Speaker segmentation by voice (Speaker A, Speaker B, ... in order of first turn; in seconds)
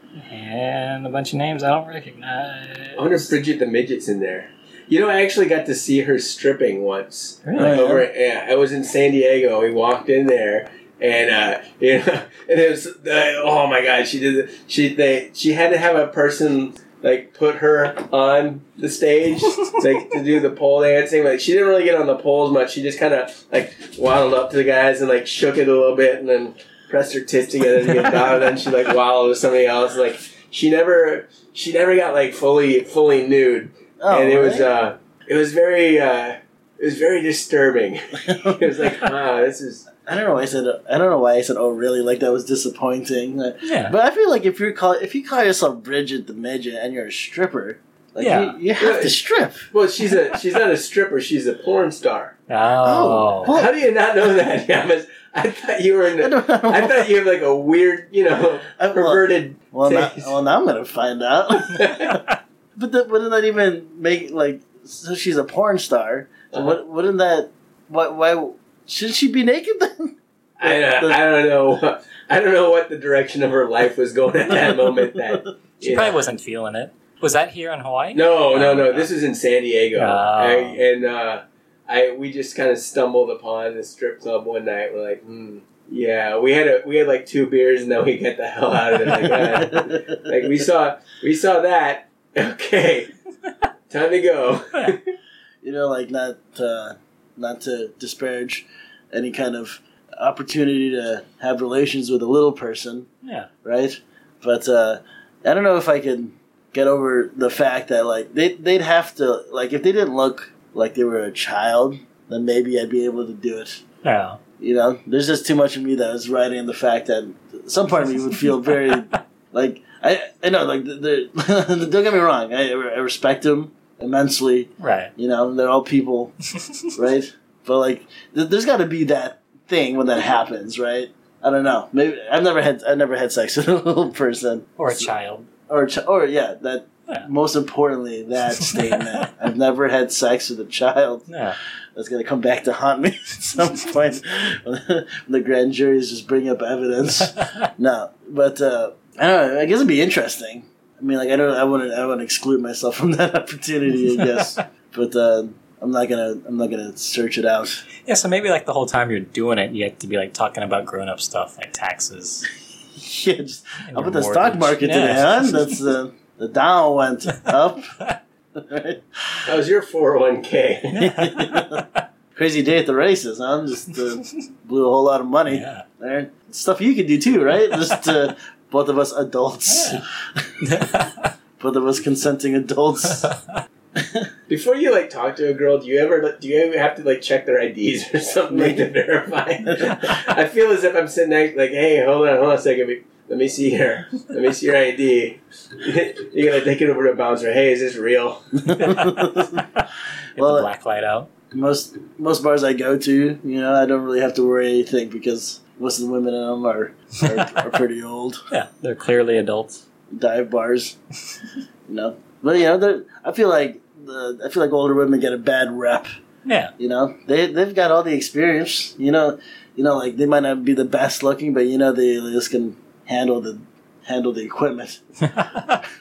Speaker A: 0.2-3.3, 7.5-7.8, 19.5-19.8, 43.6-44.0, 48.2-48.6, 52.5-53.6, 75.8-79.1, 80.0-80.8, 103.2-103.5, 114.0-114.4, 124.8-125.1, 134.8-135.5, 138.6-139.0, 141.3-141.6, 147.3-147.7, 154.2-154.6, 158.1-162.5, 163.9-165.8, 170.9-172.0, 175.5-175.9, 179.7-180.0, 180.6-181.3, 198.9-199.1, 200.3-201.3, 207.3-207.6, 208.5-209.8, 216.4-216.7, 225.3-225.8
Speaker B: 3.0-39.9, 48.8-52.4, 53.5-60.4, 61.7-62.2, 66.5-66.8, 70.6-76.2, 78.1-93.1, 93.9-95.0, 169.5-171.0, 184.5-199.2
Speaker C: 7.6-8.1, 34.0-34.7, 38.2-38.8, 40.0-49.7, 52.8-53.7, 56.2-57.1, 58.8-62.2, 62.8-71.2, 74.5-75.4, 89.6-89.9, 95.6-103.1, 103.6-113.8, 114.6-126.4, 127.0-135.1, 135.7-141.3, 142.0-157.8, 163.0-168.0, 168.6-169.0, 171.0-171.8, 172.3-180.1, 181.6-183.3, 184.0-184.3, 188.5-188.9, 198.7-199.6, 200.4-200.7, 201.5-208.4, 210.1-211.0, 211.9-216.1, 216.8-225.0